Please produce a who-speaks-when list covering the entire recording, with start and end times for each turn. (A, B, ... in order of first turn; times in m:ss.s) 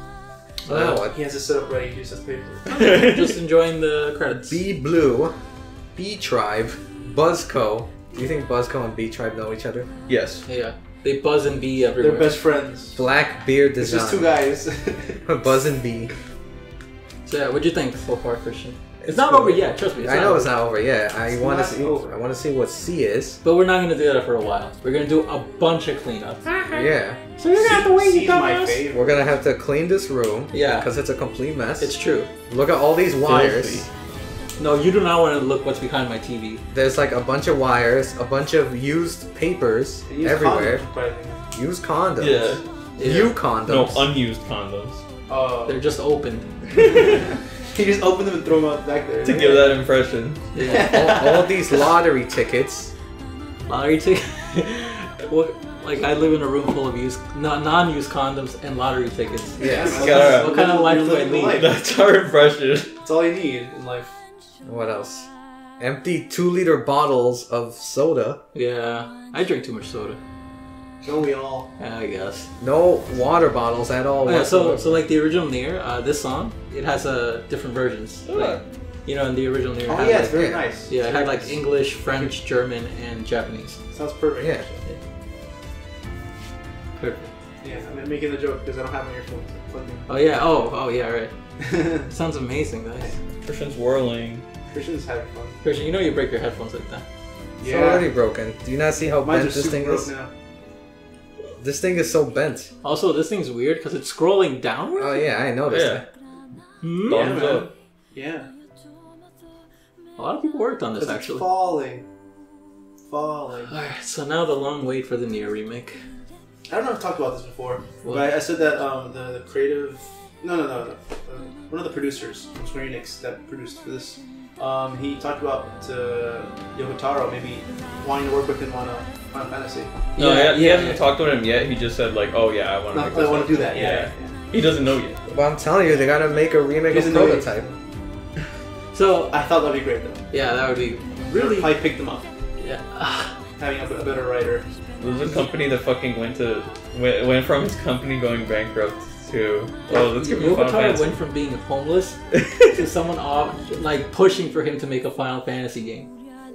0:00.6-0:01.0 A
0:00.7-0:01.2 B
0:00.7-0:02.8 C
0:02.7-0:04.6 A
0:02.7-0:03.4 D
0:04.5-0:05.4 B
0:06.0-0:09.9 B
0:10.1-0:10.4 D
0:10.5-0:12.4 A
0:12.0-0:13.1 C
0:13.0-0:14.4 B
0:13.8-0:15.3 C
0:15.2-0:16.1 B
0:17.3-0:20.5 A
0:19.0-0:23.4 B
0:21.3-0:22.2 C
0:23.4-0:26.9 A
0:26.6-0:27.2 B
0:27.4-0:28.8 A
0:27.5-0:29.4 C
0:28.9-0:32.0 B
0:30.5-0:30.9 A
0:31.8-0:32.3 A
0:32.5-0:33.9 B
0:33.3-0:33.9 D
0:34.6-0:36.6 A
0:36.7-0:40.9 B
0:40.1-0:41.4 C
0:41.5-0:44.1 B
0:42.2-0:42.6 D
0:43.0-0:43.4 A
0:43.6-0:45.0 D
0:45.3-0:45.8 C
0:45.7-0:46.5 A
0:46.9-0:49.8 C
0:49.2-0:50.6 D
0:50.5-0:51.2 A
0:50.6-0:51.8 C
0:50.8-0:52.9 B
0:53.7-1:01.6 A
0:59.6-1:00.1 B
0:59.6-1:01.8 C
1:00.0-1:00.5 D
1:01.6-1:02.9 D
1:03.0-1:04.2 C
1:04.6-1:08.4 B
1:08.5-1:10.2 A
1:11.0-1:11.7 C
1:11.8-1:12.5 A
1:12.6-1:15.0 B
1:14.3-1:23.8 A
1:18.3-1:18.6 D
1:19.9-1:22.3 C
1:20.1-1:20.7 B
1:23.9-1:24.9 C
1:27.0-1:27.3 A
1:27.6-1:30.1 C
1:30.1-1:33.2 A
1:31.6-1:32.1 C
1:33.4-1:34.5 D
1:34.7-1:35.6 C
1:35.6-1:37.0 A
1:37.6-1:38.1 C
1:37.6-1:40.1 B
1:39.2-1:40.3 C
1:41.6-1:42.7 B
1:42.8-1:45.3 A
1:45.0-1:46.1 B
1:45.7-1:46.0 D
1:46.8-1:47.4 A
1:47.1-1:48.5 C
1:47.1-1:47.7 D
1:50.2-1:51.5 A
1:51.0-1:52.1 C
1:53.0-1:53.7 C
1:53.7-1:56.0 A
1:56.7-2:10.1 C
1:58.0-1:58.3 A
2:10.2-2:11.0 A
2:10.2-2:15.2 D
2:12.9-2:14.5 C
2:15.3-2:17.7 B
2:16.9-2:17.8 C
2:18.9-2:19.4 A
2:19.3-2:20.3 C
2:20.3-2:21.8 A
2:21.2-2:22.3 C
2:22.6-2:23.4 A
2:23.6-2:24.7 C
2:25.0-2:31.2 D
2:29.9-2:32.2 A
2:32.4-2:32.7 D
2:32.7-2:36.1 A